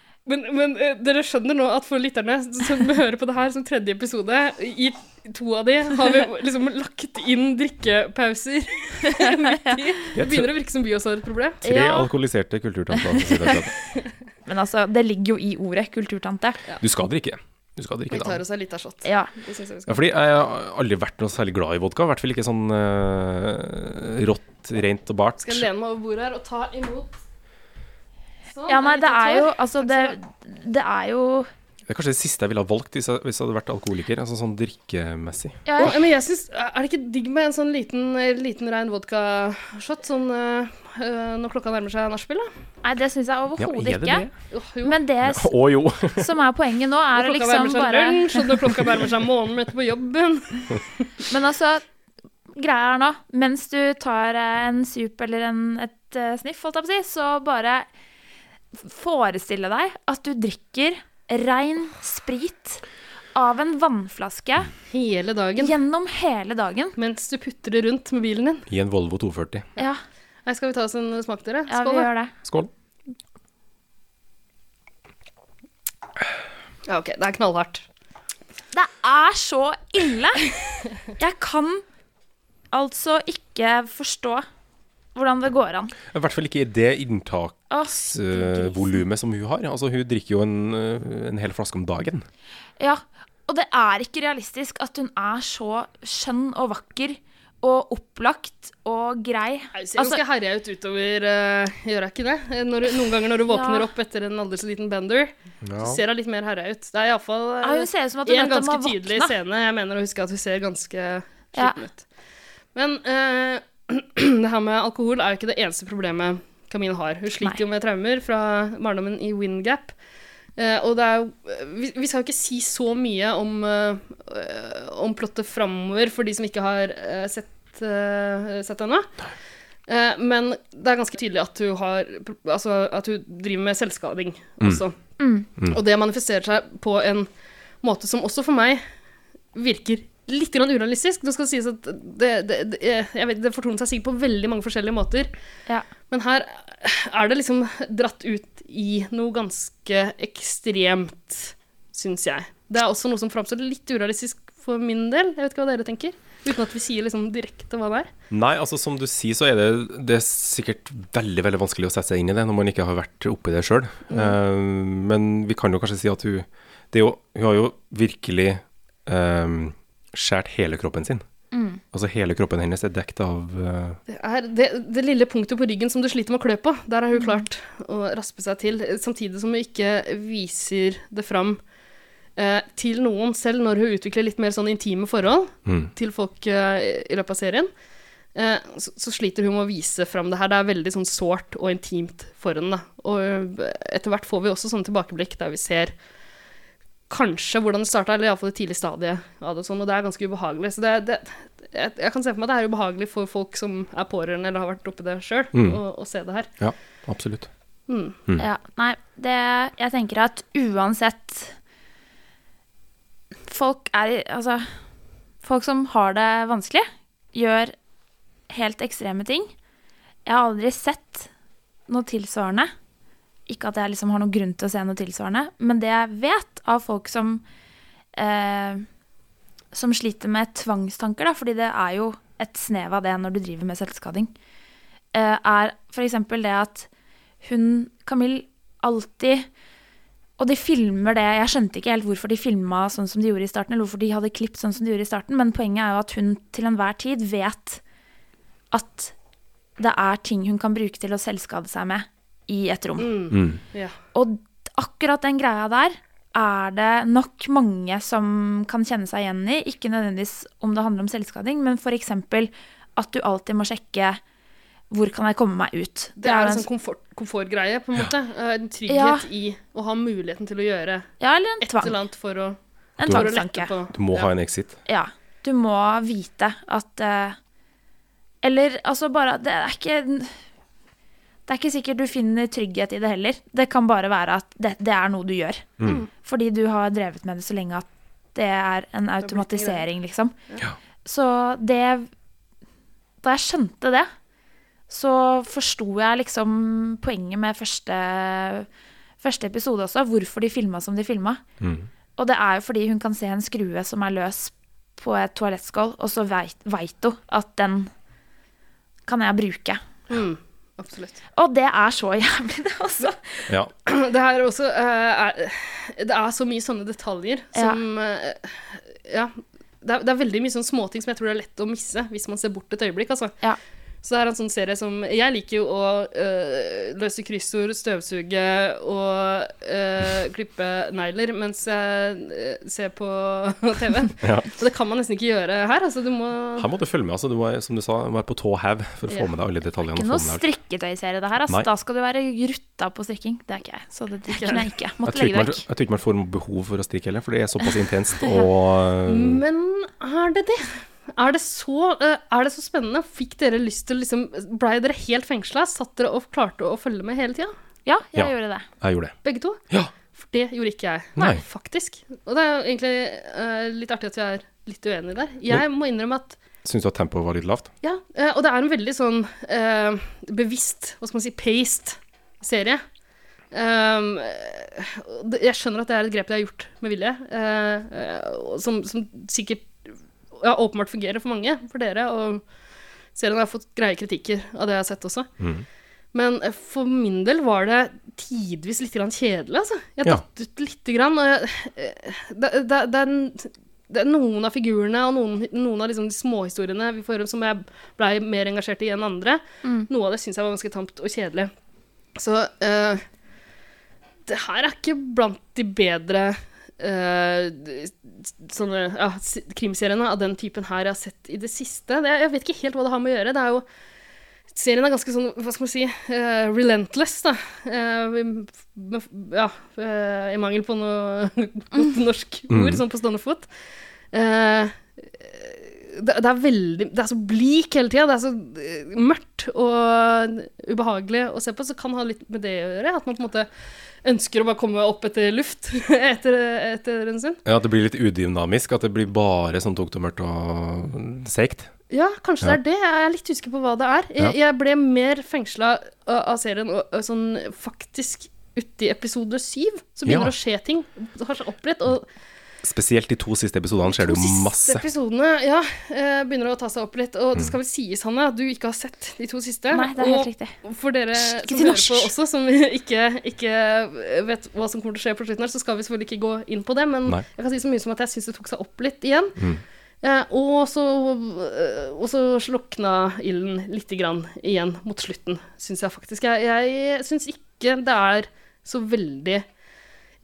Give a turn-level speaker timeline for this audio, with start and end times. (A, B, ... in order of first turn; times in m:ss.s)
0:00.2-0:11.6 A
0:09.0-0:09.8 B
0:10.1-0:10.5 C
0:11.6-0:13.7 C
0:11.6-0:12.1 B
0:13.0-0:13.6 B
0:14.4-0:16.6 B
0:16.8-0:18.4 C
0:18.1-0:20.0 A
0:19.0-0:19.3 B
0:19.9-0:25.6 C
0:25.4-0:27.2 A
0:28.5-0:30.2 A
0:28.7-0:31.5 B
0:31.9-0:36.0 C
0:35.6-0:36.0 B
0:35.8-0:42.5 A
0:42.8-0:44.3 B
0:43.6-0:44.3 C
0:44.5-0:45.0 A
0:44.8-0:45.5 B
0:45.2-0:46.3 C
0:46.0-0:48.6 B
0:47.2-0:50.8 A
0:51.3-0:51.8 B
0:52.5-0:57.9 B
0:58.7-1:02.8 B
1:03.3-1:04.7 B
1:04.9-1:05.8 A
1:05.6-1:06.9 B
1:07.0-1:08.7 A
1:08.7-1:09.7 C
1:10.4-1:12.1 A
1:11.7-1:12.3 B
1:12.4-1:12.7 C
1:16.9-1:17.8 A
1:18.7-1:20.5 B
1:21.2-1:21.8 B
1:22.7-1:24.4 B
1:25.1-1:25.9 B
1:26.1-1:32.2 C
1:27.7-1:29.0 B
1:32.8-1:40.2 B
1:39.7-1:52.0 A
1:43.5-1:43.9 B
1:45.6-1:46.0 C
1:47.6-1:49.3 B
1:52.7-1:59.9 A
2:00.6-2:09.1 A
2:09.9-2:14.9 A
2:15.2-2:15.5 B
2:15.7-2:17.3 A
2:17.8-2:18.8 A
2:19.5-2:25.3 A
2:26.1-2:38.1 A
2:38.3-2:51.2 C
2:51.5-2:51.8 B
2:51.9-2:54.0 C
2:54.1-3:01.6 A
2:57.1-2:57.4 B
3:02.4-3:07.7 A
3:05.6-3:05.9 C
3:08.3-3:15.9 A
3:17.1-3:26.5 A
3:25.5-3:25.8 C
3:26.6-3:27.5 C
3:27.9-3:28.2 A
3:28.4-3:31.5 B
3:33.5-3:34.7 B
3:35.4-3:37.7 B
3:38.5-3:39.5 B
3:40.2-3:41.3 B
3:41.9-3:42.7 B
3:43.5-3:47.4 B
3:48.1-3:48.8 B
3:49.7-3:54.3 B
3:55.1-3:56.9 B
3:57.4-3:59.5 B
4:00.4-4:07.8 B
4:08.7-4:09.1 B
4:09.8-4:13.1 B
4:13.0-4:13.9 A
4:13.3-4:13.6 C
4:14.1-4:24.2 B
4:24.9-4:26.6 B
4:26.2-4:34.3 A
4:28.9-4:29.2 B
4:31.2-4:32.0 B
4:33.0-4:33.7 B
4:33.0-4:33.3 C
4:33.9-4:34.8 C
4:34.8-4:37.4 B
4:38.4-4:40.3 B
4:41.5-4:45.6 B
4:45.8-4:46.0 C
4:46.2-4:50.3 B
4:49.2-4:49.8 A
4:51.0-4:52.1 B
4:53.2-4:54.1 B
4:54.9-4:58.7 B
4:59.2-5:01.4 B
5:01.6-5:01.9 C
5:02.2-5:07.9 B
5:09.0-5:09.8 B
5:10.1-5:11.2 A
5:11.3-5:13.4 B
5:13.8-5:23.4 A
5:24.0-5:36.7 A
5:34.2-5:34.5 C
5:36.6-5:40.4 C
5:39.9-5:45.6 B
5:44.3-5:44.6 A
5:45.0-5:49.4 C
5:48.2-5:48.4 B
5:49.0-5:57.5 A
5:57.8-5:58.7 B
5:58.1-5:59.2 C
5:59.2-5:59.6 A
6:00.1-6:06.4 A
6:01.2-6:01.4 C
6:06.6-6:07.7 C
6:07.8-6:12.8 A
6:13.5-6:19.8 A
6:20.4-6:22.4 A
6:23.1-6:25.3 A
6:25.4-6:25.6 C
6:26.1-6:41.5 A
6:42.2-6:43.0 A
6:44.3-6:53.6 A
6:54.5-7:03.5 A
7:02.5-7:02.8 C
7:04.1-7:13.5 A
7:14.0-7:17.4 A
7:17.4-7:21.7 C
7:21.9-7:32.0 A
7:30.0-7:30.3 C
7:32.6-7:34.8 C
7:33.8-7:49.4 A
7:39.7-7:40.5 B
7:41.2-7:42.1 B
7:50.0-7:59.4 A